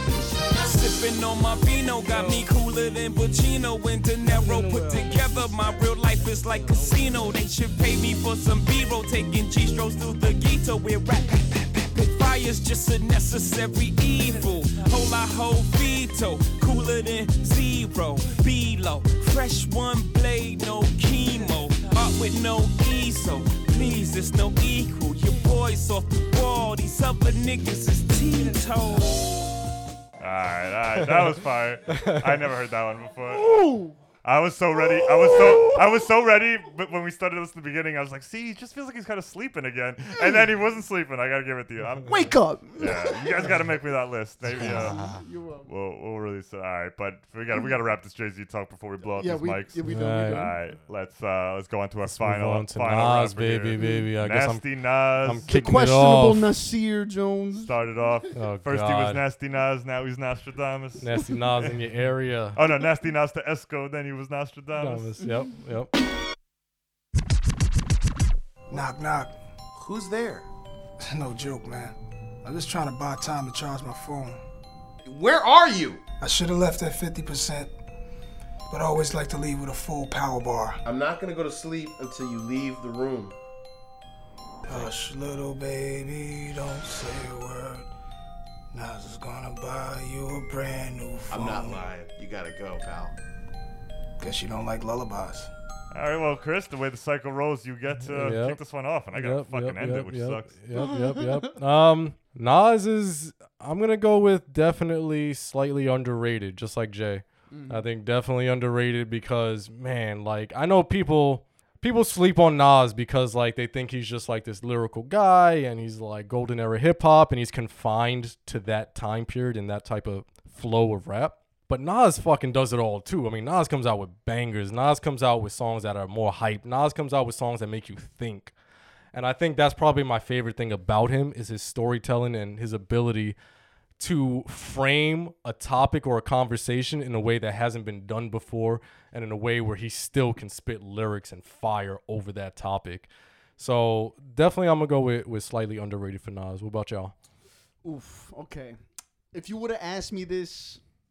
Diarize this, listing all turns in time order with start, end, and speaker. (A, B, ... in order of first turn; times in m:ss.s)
0:00.6-0:03.4 A
0:04.0-0:12.4 A
0:13.9-0:29.1 A
0:30.2-0:33.6 B
0:31.9-0:32.4 C
0:33.3-0:34.0 D
0:34.2-0:45.0 B
0:34.8-0:36.1 D
0:40.2-0:40.5 D
0:42.1-0:43.7 D
0:44.5-0:45.7 D
0:45.6-0:55.5 B
0:49.2-0:50.6 D
0:49.9-0:50.5 C
0:52.1-0:54.7 C
0:53.8-0:54.1 D
0:55.2-0:56.5 C
0:55.5-0:58.0 D
0:57.6-1:01.8 B
0:58.3-0:59.2 C
1:01.0-1:02.6 C
1:02.5-1:05.1 B
1:04.8-1:05.9 C
1:08.7-1:09.4 E
1:09.7-1:10.4 F
1:11.0-1:14.4 E
1:15.0-1:16.0 F
1:16.2-1:17.7 E
1:18.7-1:20.8 E
1:20.8-1:23.3 F
1:24.7-1:27.9 E
1:28.7-1:31.8 E
1:31.3-1:33.1 F
1:34.2-1:35.5 E
1:35.9-1:40.5 B
1:38.0-1:38.6 C
1:39.1-2:08.5 C
1:40.7-1:41.6 D
1:47.5-1:47.8 D
2:09.1-2:13.4 C
2:14.0-2:27.1 C
2:27.8-2:28.8 D
2:29.3-2:30.8 D